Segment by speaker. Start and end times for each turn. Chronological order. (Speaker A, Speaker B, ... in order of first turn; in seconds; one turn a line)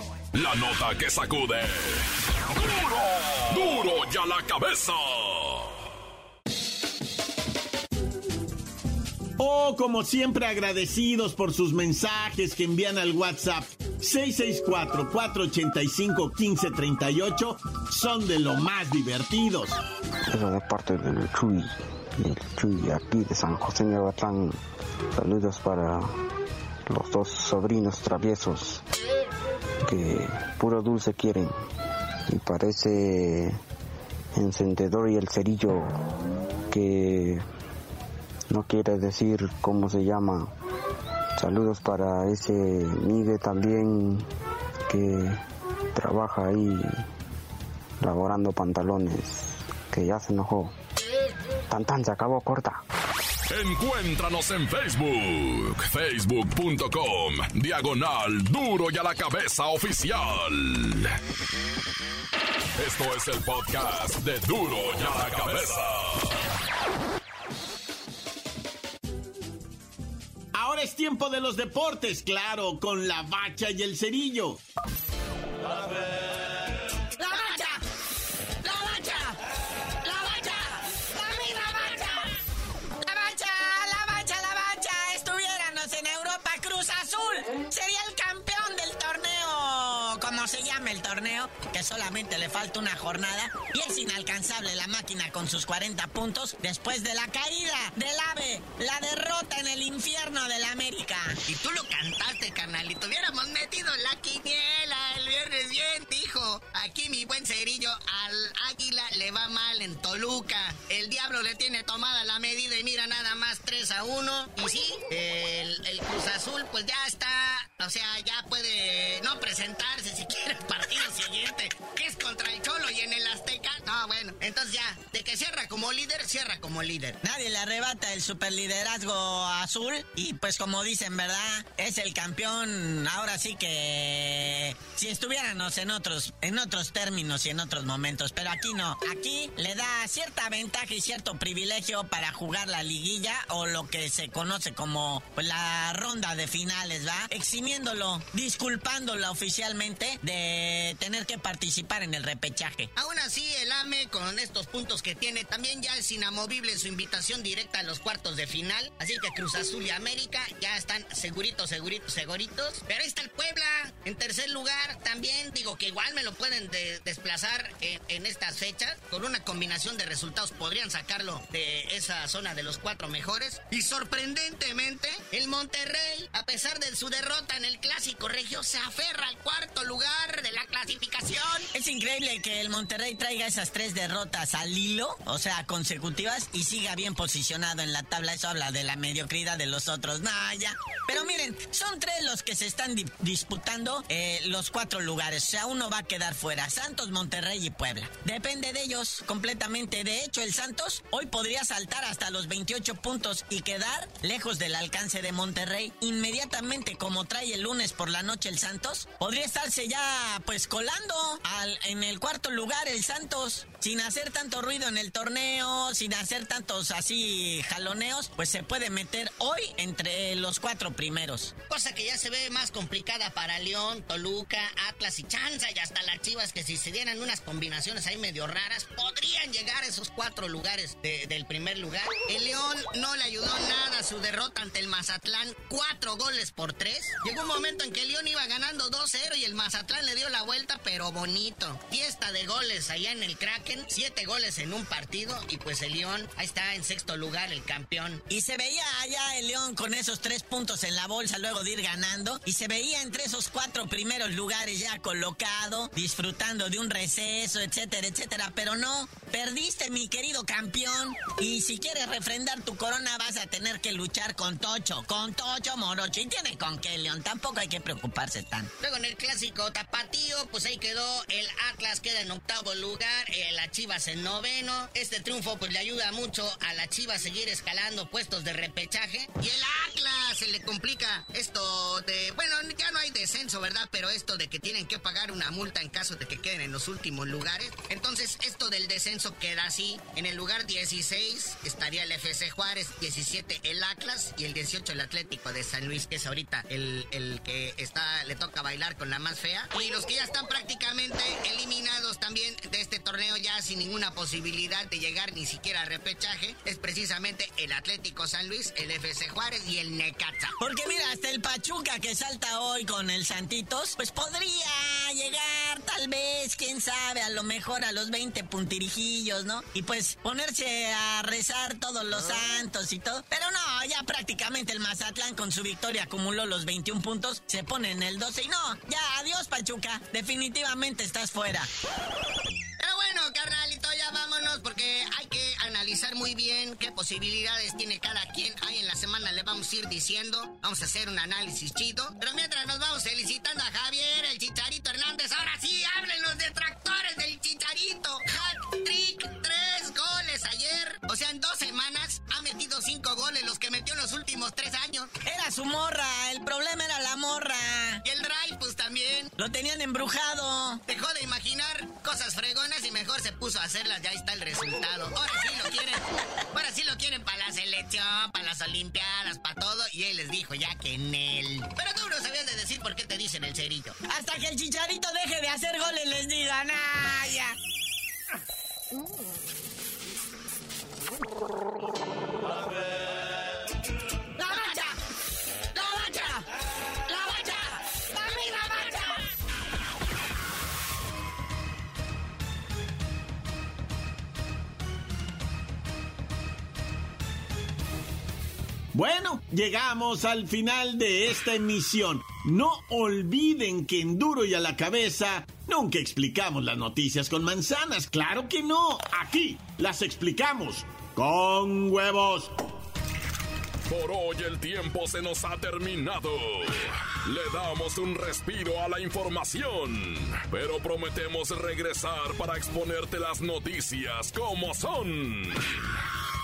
Speaker A: 0.3-5.7
Speaker B: 9.4-19.8
Speaker C: 20.3-24.6
Speaker C: 25.1-26.2
Speaker C: 26.9-28.8
Speaker C: 29.8-31.5
Speaker C: 32.3-33.6
Speaker C: 34.3-36.0
Speaker C: 36.7-37.4
Speaker C: 38.5-40.5
Speaker C: 41.4-44.3
Speaker C: 44.9-45.4
Speaker C: 45.9-47.0
Speaker C: 48.0-50.7
Speaker C: 51.7-52.8
Speaker A: 53.5-61.1
Speaker A: 62.8-66.4
Speaker B: 70.5-74.6
Speaker D: 77.2-77.8
Speaker D: 78.6-79.4
Speaker D: 80.0-82.3
Speaker D: 83.0-101.4
Speaker E: 101.5-127.2
Speaker D: 127.2-152.9
Speaker E: 152.9-181.7
Speaker D: 181.7-221.5
Speaker E: 221.7-248.2
Speaker D: 248.3-268.7
Speaker E: 268.8-310.5
Speaker D: 310.6-331.7
Speaker E: 332.8-355.1
Speaker D: 355.2-358.0
Speaker E: 358.0-359.3
Speaker D: 359.4-360.8
Speaker E: 360.9-374.0
Speaker D: 374.1-377.6
Speaker D: 384.4-384.9
Speaker D: 385.7-386.4
Speaker D: 387.1-389.1
Speaker B: 398.9-412.5
Speaker A: 413.9-426.0